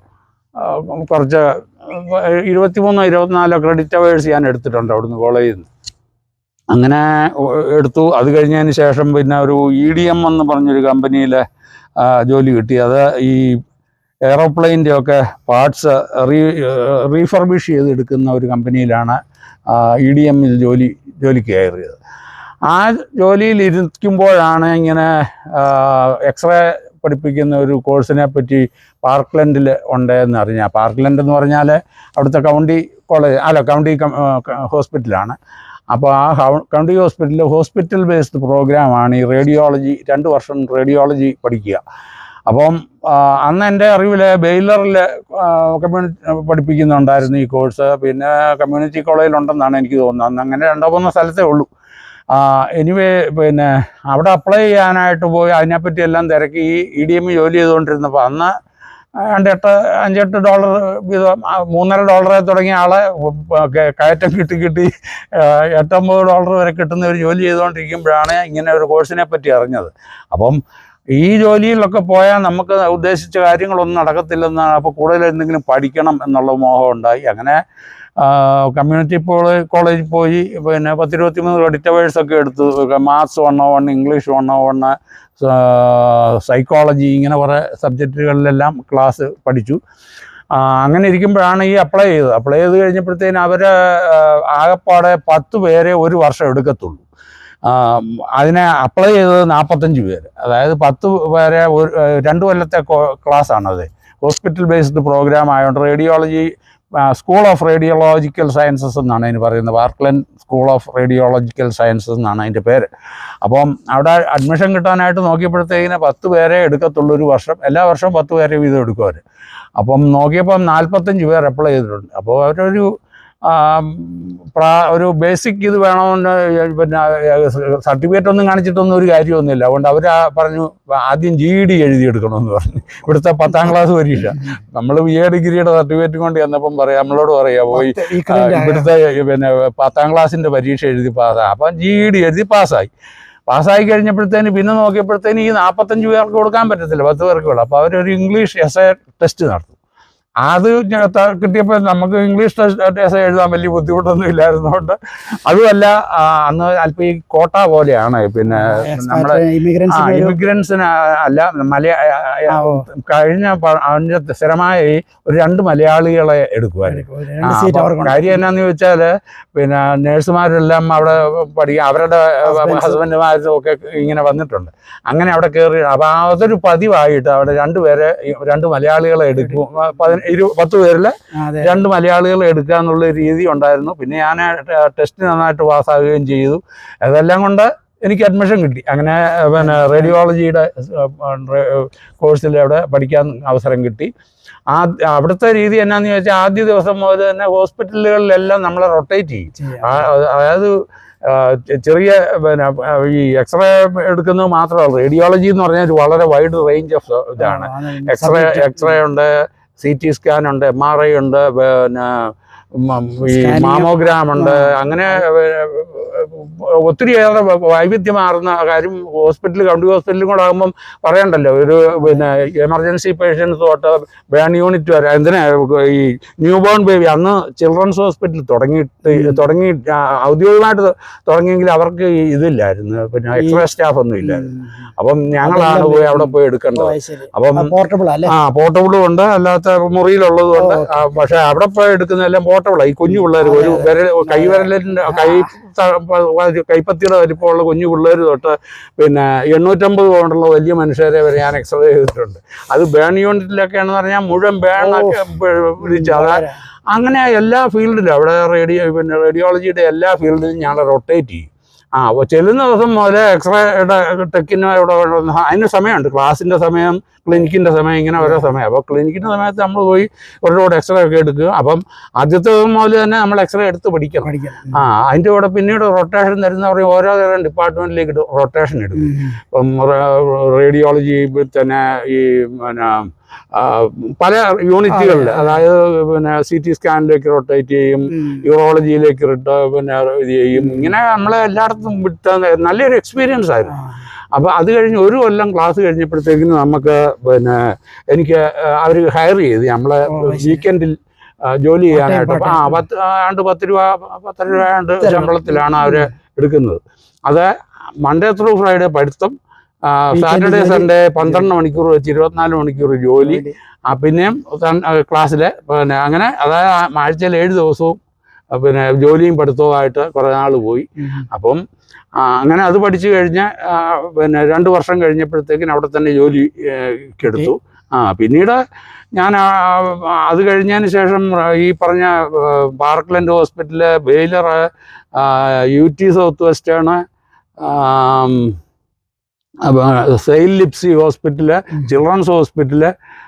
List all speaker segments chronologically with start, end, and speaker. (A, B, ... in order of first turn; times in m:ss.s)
0:00.6-0:05.7 A
0:06.7-0:11.4 A
0:12.0-0:13.6 A
0:14.3-0:19.2 A
0:19.7-0:22.0 A
0:22.7-0:35.4 A
0:35.9-0:41.8 A
0:42.5-0:51.7 A
0:52.3-0:58.5 A
0:59.2-1:10.6 A
1:11.1-1:17.6 A
1:18.2-1:29.8 A
1:30.5-1:37.0 A
1:37.6-1:46.5 A
1:47.0-1:52.9 A
1:53.4-1:59.2 A
1:59.8-2:02.9 A
2:03.4-2:22.9 A
2:17.7-2:18.9 B
2:23.5-2:29.7 A
2:30.4-3:14.1 A
2:38.5-2:40.4 B
2:42.5-2:42.8 B
2:46.9-2:48.4 B
2:52.4-2:53.0 B
3:01.3-3:01.8 B
3:09.6-3:10.2 B
3:14.7-3:20.7 A
3:19.5-3:20.1 B
3:21.2-3:54.5 A
3:27.4-3:29.0 B
3:33.2-3:35.2 B
3:49.1-3:49.4 B
3:53.4-3:53.6 B
3:54.2-3:54.8 B
3:55.0-3:57.7 A
3:55.4-3:58.3 B
3:58.3-4:53.7 A
4:00.6-4:01.0 B
4:03.1-4:05.5 B
4:14.8-4:15.2 B
4:15.8-4:16.6 B
4:34.2-4:34.8 B
4:39.0-4:39.4 B
4:44.9-4:45.6 B
4:48.1-4:48.4 B
4:50.6-4:50.9 B
4:53.7-4:54.0 B
4:54.3-4:57.6 A
4:58.1-5:07.5 A
5:00.1-5:00.6 B
5:01.9-5:02.8 B
5:05.0-5:06.1 B
5:08.0-5:09.3 A
5:09.9-5:18.0 A
5:10.1-5:11.5 B
5:13.2-5:13.6 B
5:18.5-5:21.6 A
5:21.0-5:21.2 B
5:22.2-5:28.6 A
5:27.2-5:27.5 B
5:29.1-5:37.0 A
5:37.6-5:38.5 A
5:39.6-5:42.9 A